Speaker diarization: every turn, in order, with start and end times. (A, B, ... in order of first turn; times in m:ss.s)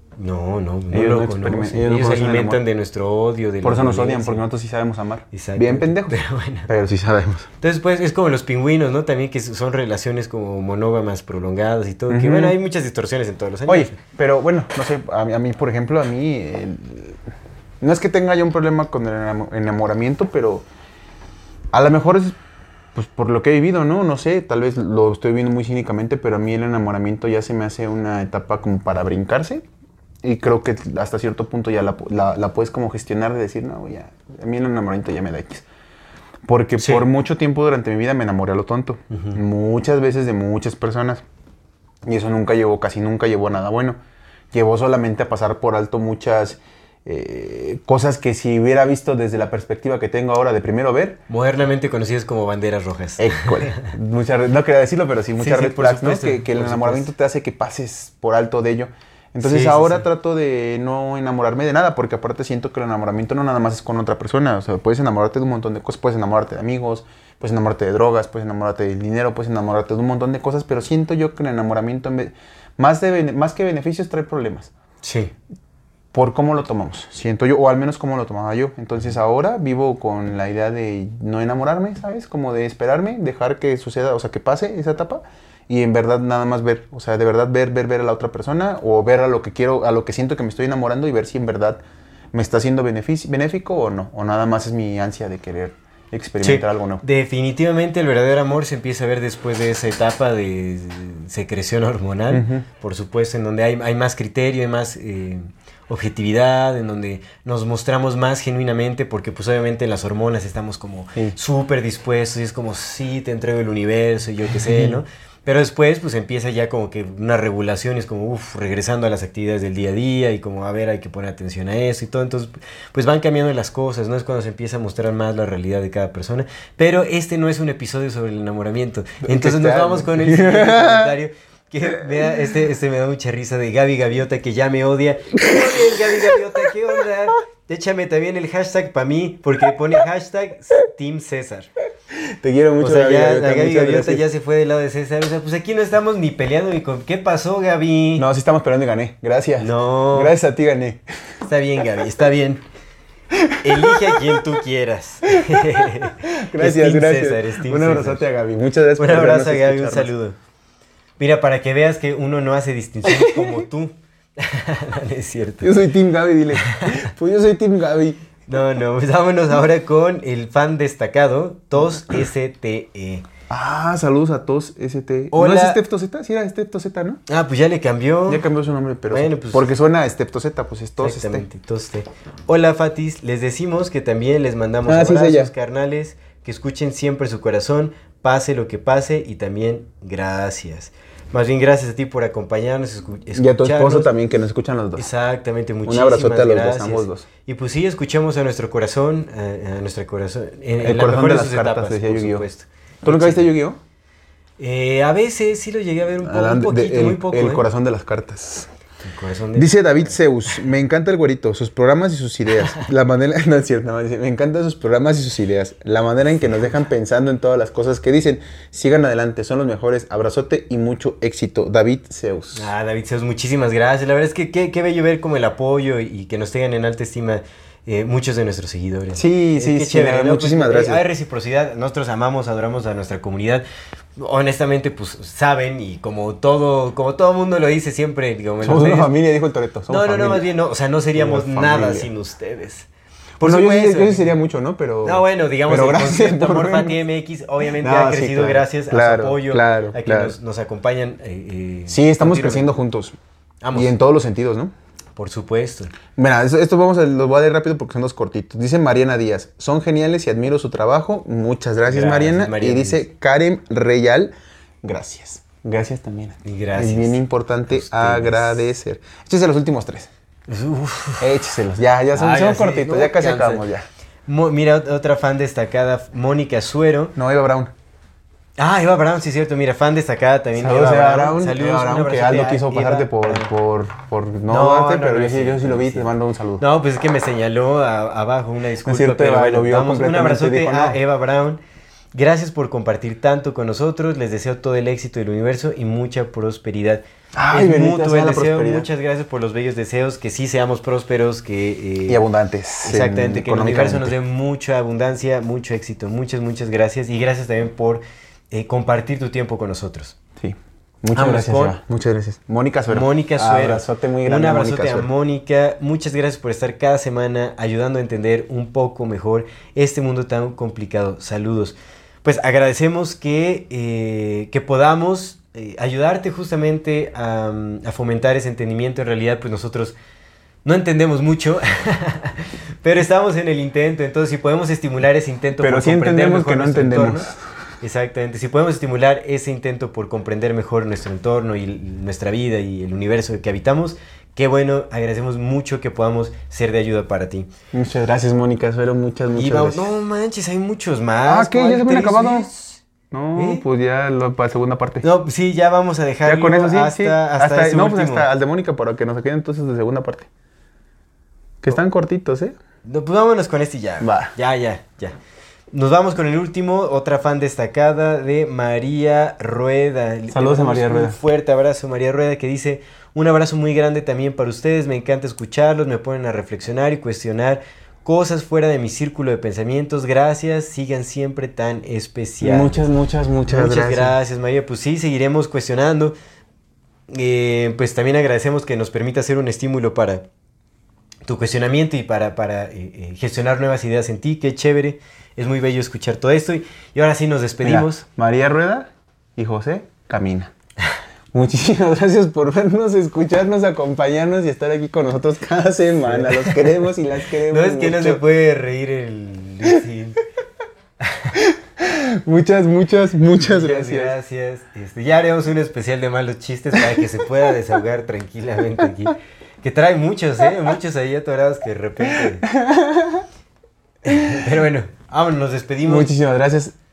0:00.2-0:04.4 A
0:00.9-0:02.6 B
0:03.6-0:07.5 B
0:05.3-0:06.7 A
0:07.6-0:14.0 A
0:12.1-0:12.6 B
0:13.6-0:17.2 B
0:17.8-0:20.7 B
0:21.7-0:22.3 B
0:22.9-0:29.6 B
0:30.2-0:35.6 B
0:36.4-0:41.2 B
0:36.8-0:37.0 A
0:42.1-0:44.0 B
0:44.5-0:51.2 B
0:51.3-0:53.9 A
0:53.2-1:14.7 B
0:55.4-0:57.1 A
0:59.4-1:00.0 A
1:15.0-1:15.3 A
1:16.1-1:31.8 B
1:32.3-1:37.0 B
1:36.4-2:21.7 A
1:42.3-1:42.6 B
1:54.6-1:55.0 B
2:09.2-2:11.1 B
2:22.1-2:24.2 B
2:22.8-2:28.3 A
2:28.2-2:31.0 B
2:29.6-2:30.3 A
2:31.4-2:32.6 A
2:33.3-2:33.9 B
2:33.6-2:38.2 A
2:35.4-2:40.1 B
2:39.0-2:40.4 A
2:41.2-2:45.8 A
2:43.0-2:43.6 B
2:45.6-2:48.2 B
2:46.5-2:47.0 A
2:48.5-2:53.2 A
2:53.5-2:57.2 B
2:55.3-2:55.8 A
2:57.3-2:58.4 A
2:58.3-3:01.4 B
2:59.1-2:59.7 A
3:01.0-3:14.2 A
3:04.9-3:05.5 B
3:13.3-3:15.1 B
3:14.9-3:23.5 A
3:15.8-3:17.2 B
3:20.8-3:22.5 B
3:23.0-3:23.8 B
3:24.6-3:27.6 A
3:26.2-3:28.7 B
3:29.0-3:30.2 A
3:29.5-3:42.7 B
3:36.4-3:36.8 A
3:42.5-3:59.1 A
3:49.1-3:51.0 B
3:58.6-4:00.4 B
3:59.9-4:02.9 A
4:01.1-4:02.1 B
4:03.4-4:04.4 A
4:03.4-4:07.0 B
4:05.0-4:12.7 A
4:07.7-4:10.4 B
4:11.9-4:13.2 B
4:13.6-4:14.0 A
4:13.7-4:14.7 B
4:15.2-4:15.9 A
4:16.2-4:30.1 B
4:21.8-4:23.0 A
4:26.4-4:28.6 A
4:30.5-4:31.3 A
4:31.2-4:33.8 B
4:32.1-4:33.6 A
4:34.2-4:37.1 A
4:37.2-4:37.7 B
4:38.6-4:43.5 A
4:40.6-4:46.6 B
4:44.5-4:51.6 A
4:48.8-4:51.0 B
4:52.1-5:02.2 A
4:57.3-4:58.9 B
5:02.1-5:04.2 B
5:02.8-5:10.2 A
5:10.4-5:15.1 B
5:11.1-5:11.8 A
5:12.9-5:30.0 A
5:30.6-5:37.3 A
5:35.6-5:37.4 B
5:37.8-5:47.5 A
5:47.7-5:49.9 B
5:49.3-5:52.8 A
5:51.2-5:52.5 B
5:53.1-5:55.0 B
5:53.3-5:53.6 A
5:55.0-5:58.3 A
5:56.2-6:00.3 B
6:01.6-6:02.5 B
6:02.8-6:05.2 A
6:04.0-6:04.3 B
6:05.7-6:22.9 A
6:10.3-6:11.2 B
6:22.4-6:24.2 B
6:23.5-6:26.1 A
6:27.1-6:30.2 A
6:31.2-6:38.0 A
6:37.6-6:40.5 B
6:41.3-6:48.2 B
6:46.0-6:46.9 A
6:47.5-6:50.2 A
6:51.0-6:51.4 A
6:51.3-6:54.2 B
6:53.3-7:02.5 A
7:02.1-7:03.2 B
7:04.0-7:06.1 A
7:05.8-7:06.7 B